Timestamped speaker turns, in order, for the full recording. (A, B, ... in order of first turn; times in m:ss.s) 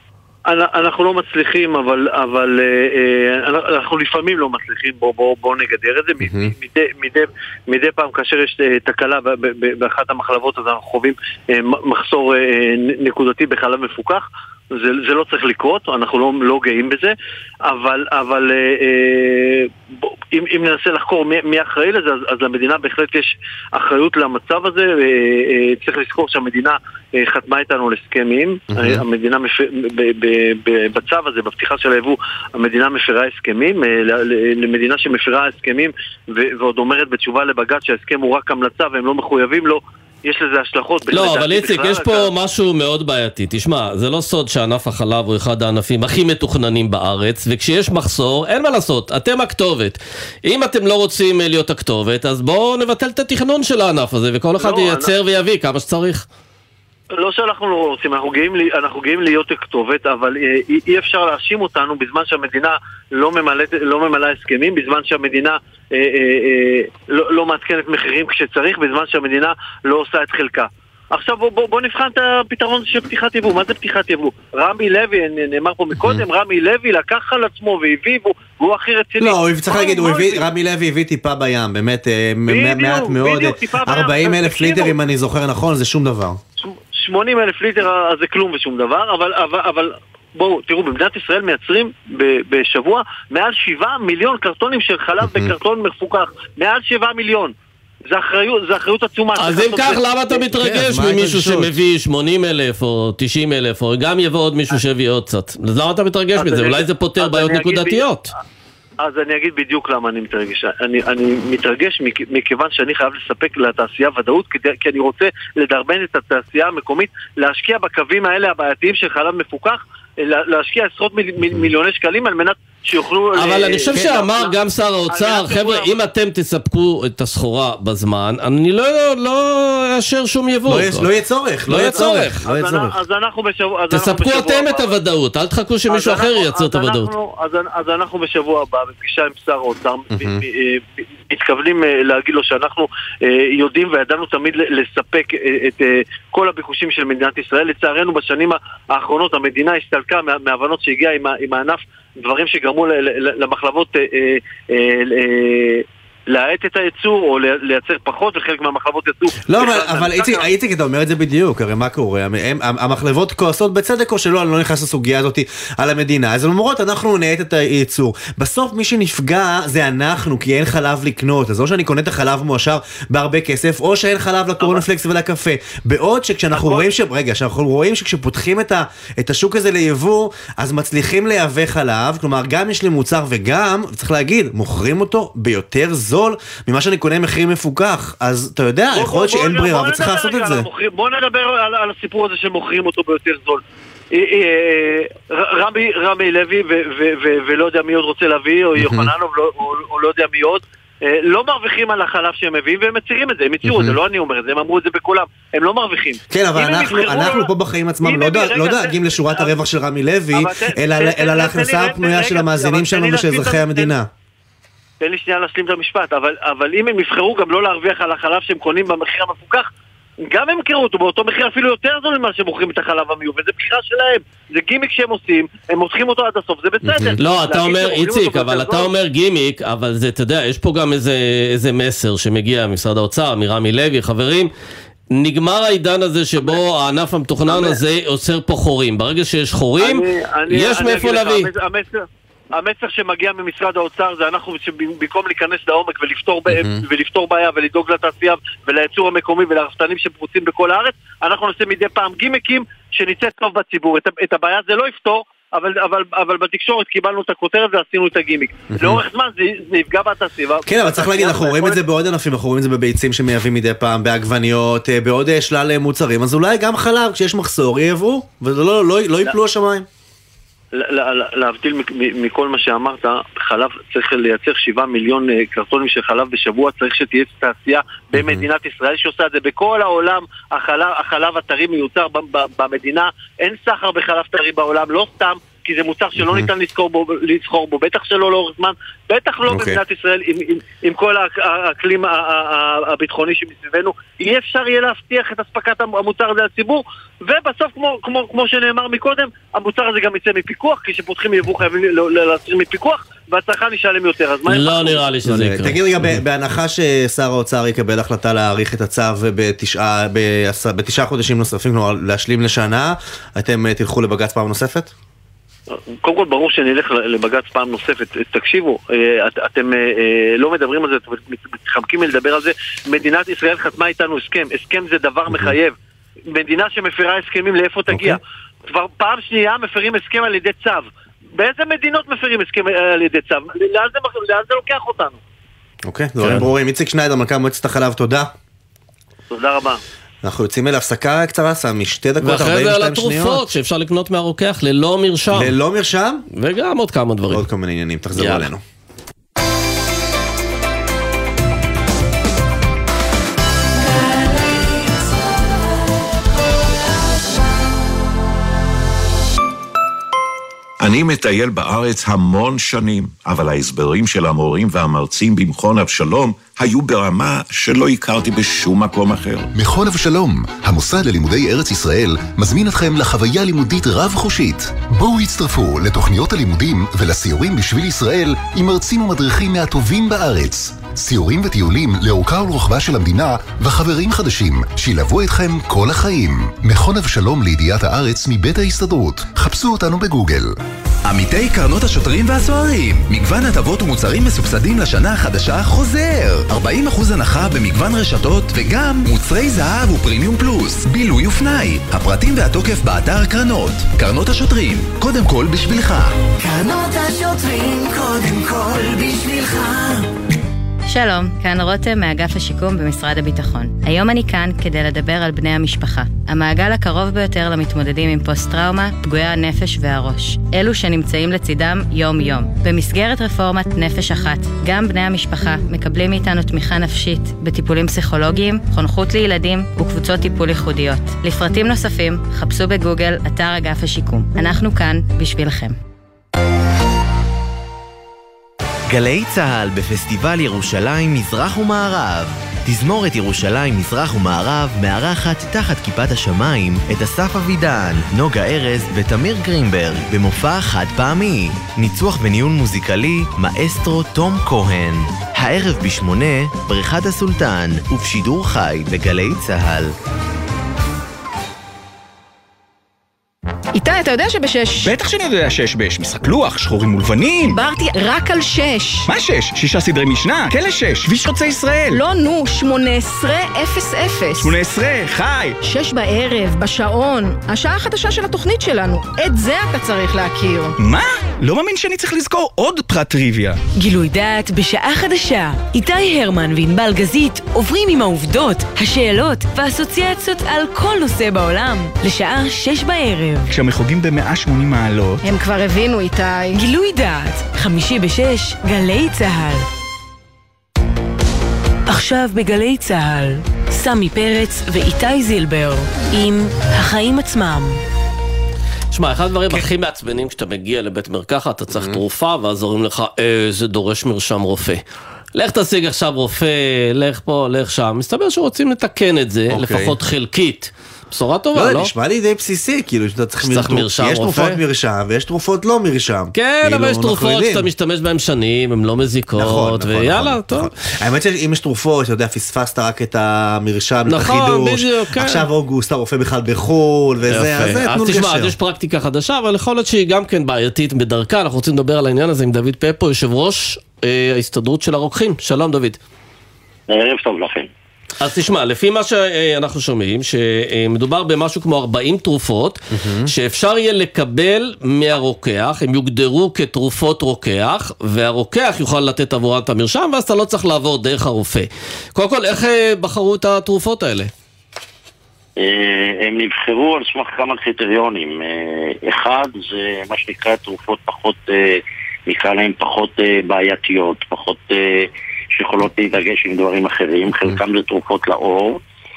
0:00.5-0:17.1 A
0:06.2-0:06.5 B
0:17.6-0:42.3 A
0:28.7-0:29.0 B
0:41.1-0:56.2 C
0:54.6-0:55.1 A
0:57.1-1:20.5 A
1:16.0-1:16.2 B
1:19.2-1:26.4 B
1:22.5-1:25.0 A
1:26.6-1:37.5 A
1:35.2-1:35.5 B
1:38.1-1:40.4 A
1:39.3-1:48.3 C
1:40.5-1:41.7 B
1:46.4-1:48.0 A
1:49.0-2:04.5 A
2:03.3-2:11.1 C
2:05.1-2:05.9 A
2:10.7-2:13.0 B
2:11.7-2:12.4 C
2:11.8-2:14.9 A
2:13.9-2:17.1 C
2:15.9-2:40.5 A
2:20.1-2:20.4 B
2:39.4-3:10.7 B
2:56.5-2:56.9 A
3:08.9-3:29.6 A
3:18.7-3:19.1 B
3:23.6-3:24.0 B
3:26.3-3:34.1 B
3:30.3-3:33.9 A
3:35.0-3:39.7 A
3:40.3-3:48.9 A
3:46.8-3:47.2 B
3:47.2-3:54.5 C
3:55.1-4:01.5 C
3:57.4-3:57.8 A
3:59.8-4:21.8 A
4:06.5-4:06.8 B
4:18.8-4:19.0 B
4:20.6-4:29.8 B
4:30.7-5:05.0 A
4:38.1-4:38.4 B
4:46.2-4:46.5 B
4:49.4-4:49.8 B
5:04.4-5:06.2 C
5:05.2-5:14.9 B
5:15.7-5:25.8 A
5:25.3-5:25.5 B
5:26.3-5:35.2 A
5:27.9-5:28.2 B
5:35.8-5:38.3 B
5:36.2-5:36.5 C
5:39.3-5:39.8 A
5:40.2-5:43.5 B
5:42.2-5:45.5 C
5:45.3-5:46.2 B
5:46.3-5:47.4 C
5:47.3-5:48.6 B
5:48.2-5:48.5 C
6:00.8-6:09.5 D
6:09.6-6:30.5 E
6:31.0-6:46.1 F
6:50.8-7:15.8 G
7:18.9-7:39.9 H
7:43.7-7:44.9 I
7:44.9-7:47.6 J
7:47.6-7:49.1 I
7:49.1-7:52.0 J
7:51.9-7:54.6 I
7:54.4-7:55.5 J
7:55.6-8:00.8 I
8:00.8-8:03.6 J
8:03.7-8:13.5 K
8:13.5-8:15.2 J
8:15.3-8:16.6 I
8:16.5-8:19.6 K
8:21.8-8:27.8 K
8:28.9-8:34.8 C
8:31.7-8:32.0 B
8:35.3-8:41.9 C
8:39.5-8:39.9 B
8:41.5-8:47.7 B
8:43.4-8:44.6 C
8:46.3-8:50.7 C
8:49.4-8:58.5 B
8:54.1-8:55.5 C
8:57.3-9:06.0 C
9:06.9-9:07.7 L
9:08.2-9:24.3 C
9:12.9-9:13.3 B
9:25.6-9:38.8 L